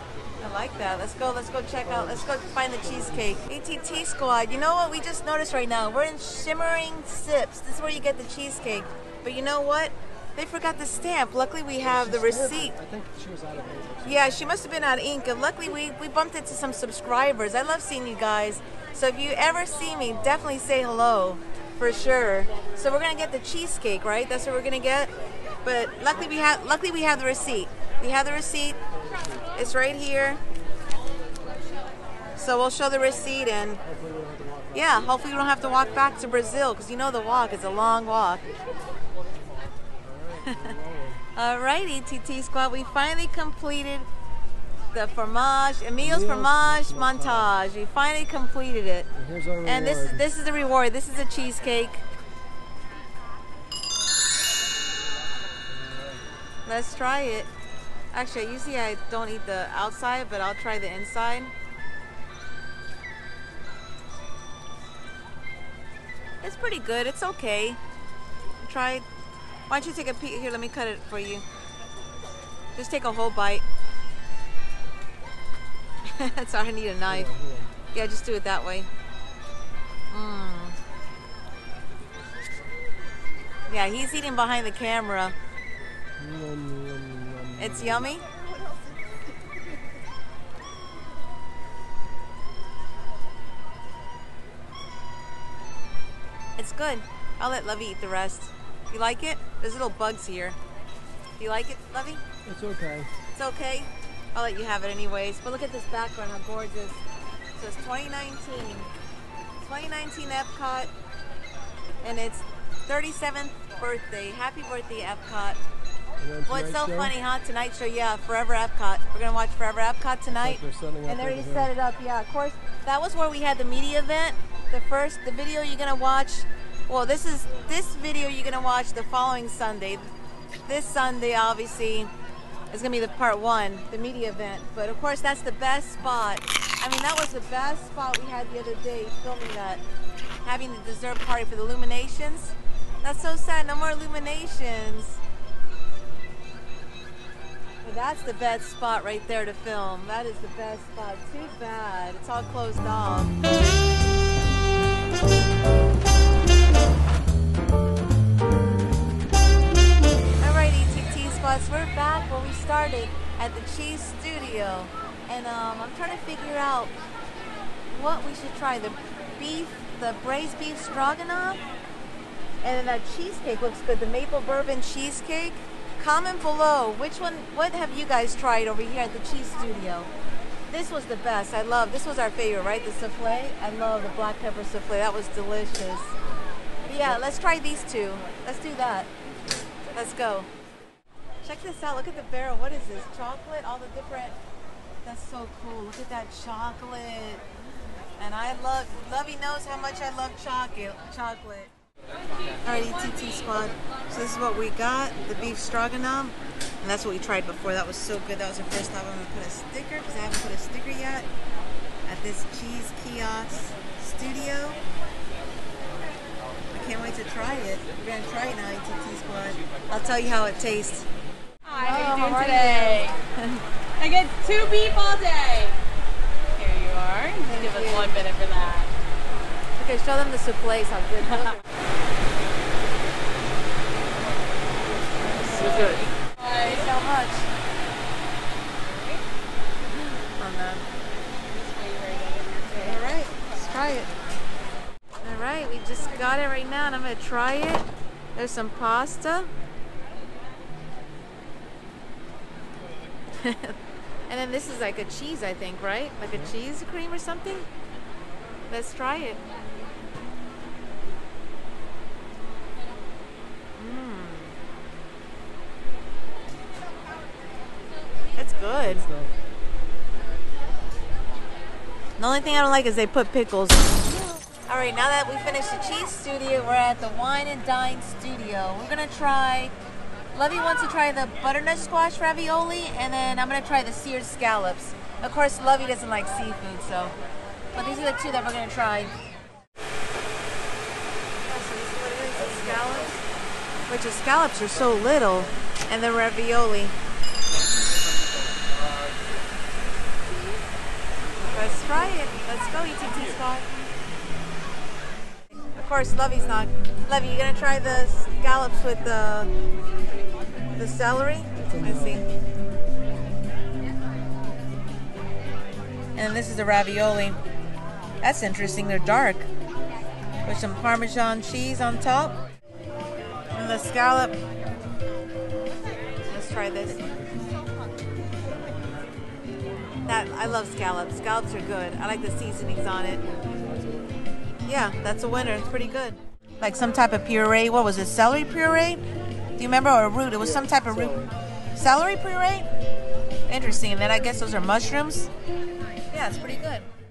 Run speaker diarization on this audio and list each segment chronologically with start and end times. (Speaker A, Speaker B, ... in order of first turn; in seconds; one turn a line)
Speaker A: 0.4-12.8
Speaker B: 1.8-3.5
Speaker B: 11.8-14.3
Speaker A: 14.0-25.1
Speaker A: 25.6-28.8
Speaker B: 29.0-29.4
Speaker A: 29.5-30.4
Speaker A: 32.4-33.8
Speaker B: 33.9-34.8
Speaker A: 34.7-38.5
Speaker B: 40.0-41.2
Speaker A: 40.5-40.8
Speaker A: 41.4-44.1
Speaker A: 44.9-49.1
Speaker B: 46.0-47.5
Speaker B: 49.1-50.3
Speaker A: 49.6-52.0
Speaker B: 55.8-56.2
Speaker A: 56.7-57.5
Speaker A: 58.1-61.5
Speaker A: 66.4-67.8
Speaker A: 68.6-69.0
Speaker A: 69.7-71.5
Speaker A: 72.8-73.6
Speaker A: 76.1-77.3
Speaker B: 77.0-77.7
Speaker A: 77.9-78.9
Speaker A: 80.1-80.8
Speaker A: 83.7-85.3
Speaker B: 86.2-88.1
Speaker A: 87.6-88.2
Speaker A: 96.6-100.6
Speaker A: 101.4-102.2
Speaker B: 102.5-103.1
Speaker A: 103.3-107.0
Speaker A: 107.6-108.9
Speaker A: 109.6-110.9
Speaker A: 112.0-115.6
Speaker B: 116.2-117.1
Speaker A: 116.5-130.1
Speaker B: 120.4-121.7
Speaker A: 130.7-132.1
Speaker A: 132.7-139.8
Speaker A: 140.4-145.2
Speaker A: 147.8-153.3
Speaker A: 160.4-166.9
Speaker A: 167.9-171.6
Speaker A: 172.6-180.1
Speaker A: 180.7-186.1
Speaker A: 186.8-189.1
Speaker A: 189.9-190.5
Speaker A: 191.4-194.4
Speaker A: 195.0-197.4
Speaker A: 198.2-201.7
Speaker A: 202.6-211.3
Speaker A: 212.1-214.8
Speaker A: 216.7-221.1
Speaker C: 221.7-223.2
Speaker A: 221.7-223.6
Speaker C: 224.0-225.8
Speaker C: 226.5-228.9
Speaker A: 227.5-228.2
Speaker A: 229.8-231.6
Speaker C: 235.3-236.7
Speaker A: 236.6-237.5
Speaker A: 239.9-240.9
Speaker C: 241.5-243.1
Speaker A: 242.7-244.1
Speaker A: 245.2-249.5
Speaker A: 253.4-253.8
Speaker A: 254.3-257.7
Speaker A: 258.7-259.4
Speaker A: 263.8-264.6
Speaker A: 268.4-269.1
Speaker B: 268.8-269.3
Speaker A: 272.2-279.7
Speaker A: 280.3-287.1
Speaker A: 287.8-289.1
Speaker A: 291.5-293.2
Speaker A: 293.9-296.9
Speaker A: 301.4-303.7
Speaker A: 305.8-309.5
Speaker A: 310.8-312.3
Speaker B: 311.6-312.2
Speaker A: 316.2-317.4
Speaker A: 318.2-319.5
Speaker A: 320.4-322.4
Speaker A: 323.5-324.4
Speaker A: 326.3-327.0
Speaker A: 330.1-333.2
Speaker B: 333.3-334.1
Speaker A: 334.7-339.0
Speaker A: 339.6-342.7
Speaker A: 343.5-345.3
Speaker A: 346.1-346.9